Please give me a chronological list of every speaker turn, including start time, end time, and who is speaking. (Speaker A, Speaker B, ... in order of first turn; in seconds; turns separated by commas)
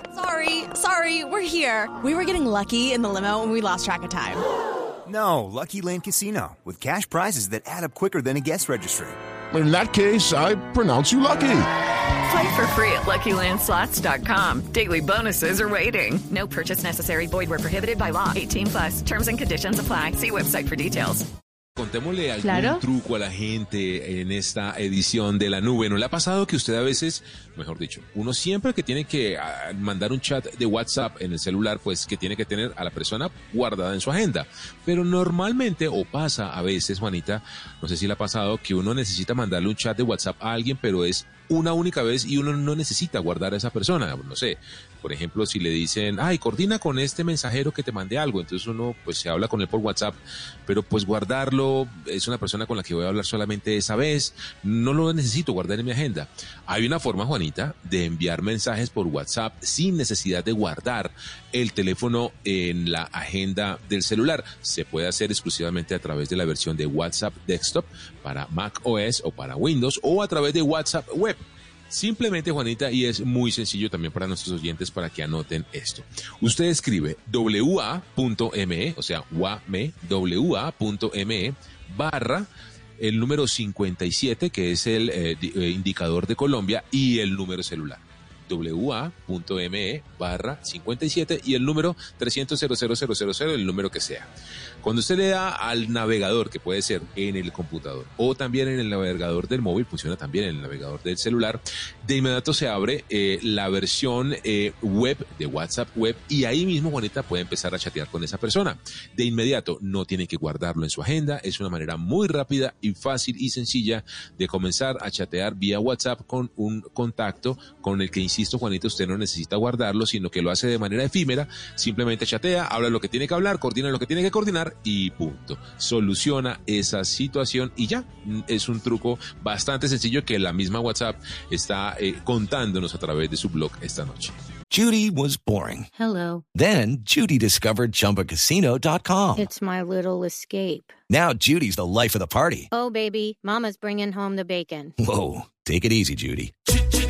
Speaker A: 0.1-4.4, Speaker B: 5.0-9.2, Speaker C: 9.5-11.6, Speaker D: 12.2-21.2, Speaker E: 21.8-82.5, Speaker E: 83.0-94.3, Speaker E: 94.8-134.3, Speaker F: 134.7-135.9, Speaker G: 136.0-136.4, Speaker F: 136.5-139.5, Speaker G: 139.4-140.9, Speaker F: 141.1-142.7, Speaker G: 142.7-144.9, Speaker F: 145.0-146.5